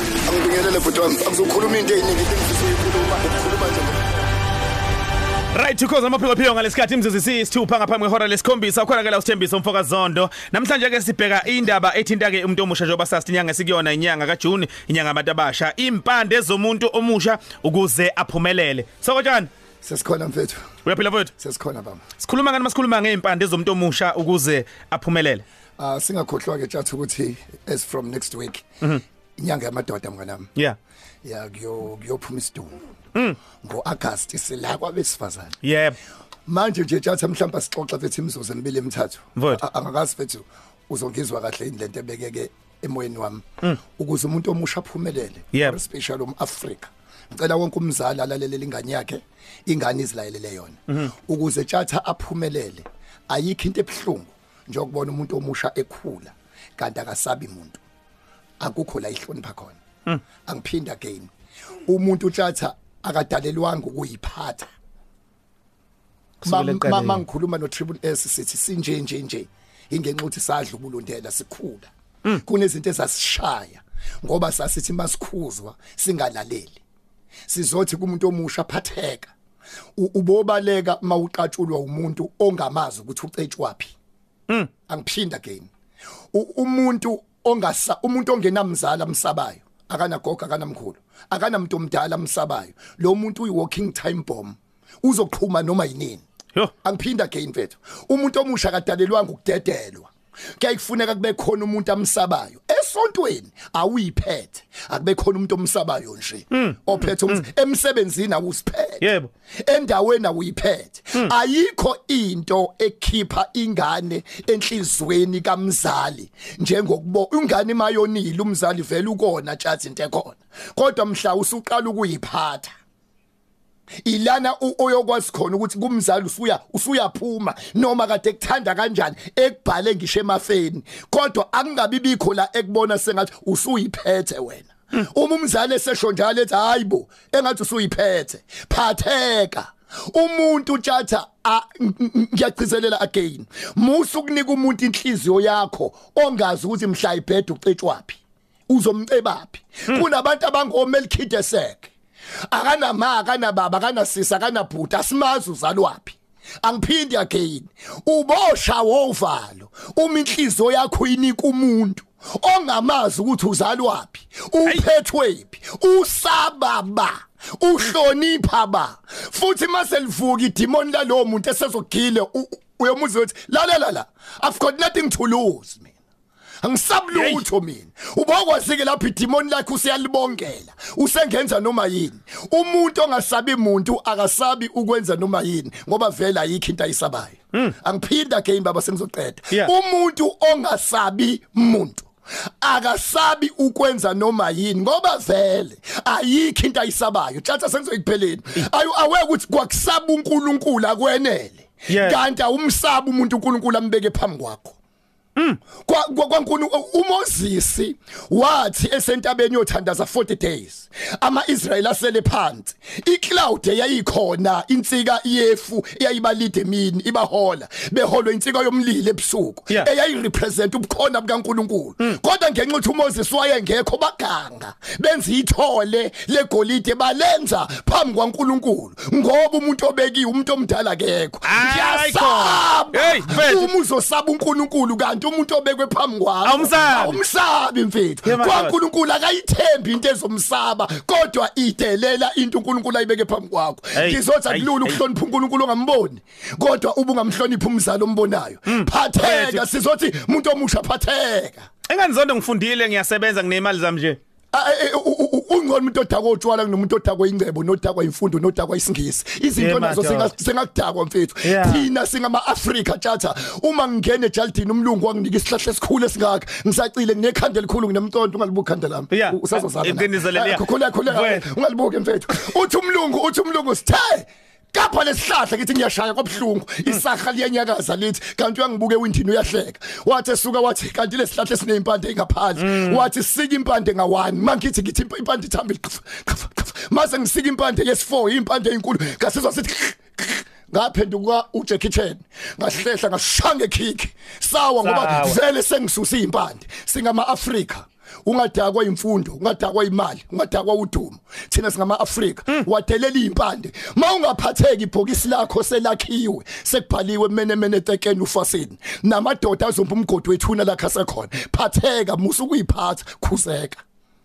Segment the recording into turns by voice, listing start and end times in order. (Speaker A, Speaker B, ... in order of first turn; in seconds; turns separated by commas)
Speaker A: 0.2-4.1, Speaker B: 5.5-19.5, Speaker A: 19.8-20.6, Speaker B: 20.8-21.3, Speaker A: 21.4-22.0, Speaker B: 22.2-25.4, Speaker A: 25.8-28.6, Speaker A: 29.4-30.5, Speaker A: 31.2-32.8, Speaker A: 33.6-35.6, Speaker B: 35.6-36.0, Speaker A: 36.5-43.5, Speaker B: 39.4-39.6, Speaker A: 44.0-57.8, Speaker A: 58.6-59.8, Speaker A: 60.5-61.3, Speaker A: 61.9-64.7, Speaker B: 66.4-67.2, Speaker A: 66.4-76.8, Speaker A: 77.5-79.3, Speaker A: 80.0-83.9, Speaker A: 84.9-85.7, Speaker A: 86.3-96.2, Speaker A: 96.8-109.0, Speaker B: 106.5-107.4, Speaker B: 109.0-109.3, Speaker A: 109.6-122.7, Speaker A: 124.0-151.9, Speaker A: 152.5-175.9, Speaker A: 176.6-192.1, Speaker B: 177.1-177.4, Speaker A: 192.6-204.8, Speaker B: 201.9-202.2, Speaker A: 205.8-251.7, Speaker B: 231.4-233.7, Speaker B: 236.4-237.2, Speaker B: 238.2-238.8, Speaker B: 243.9-245.0, Speaker B: 248.7-249.7, Speaker B: 251.9-254.2, Speaker A: 254.5-313.8, Speaker B: 259.6-260.3, Speaker B: 261.4-261.9, Speaker B: 269.1-271.5, Speaker B: 282.6-283.1, Speaker B: 294.8-295.4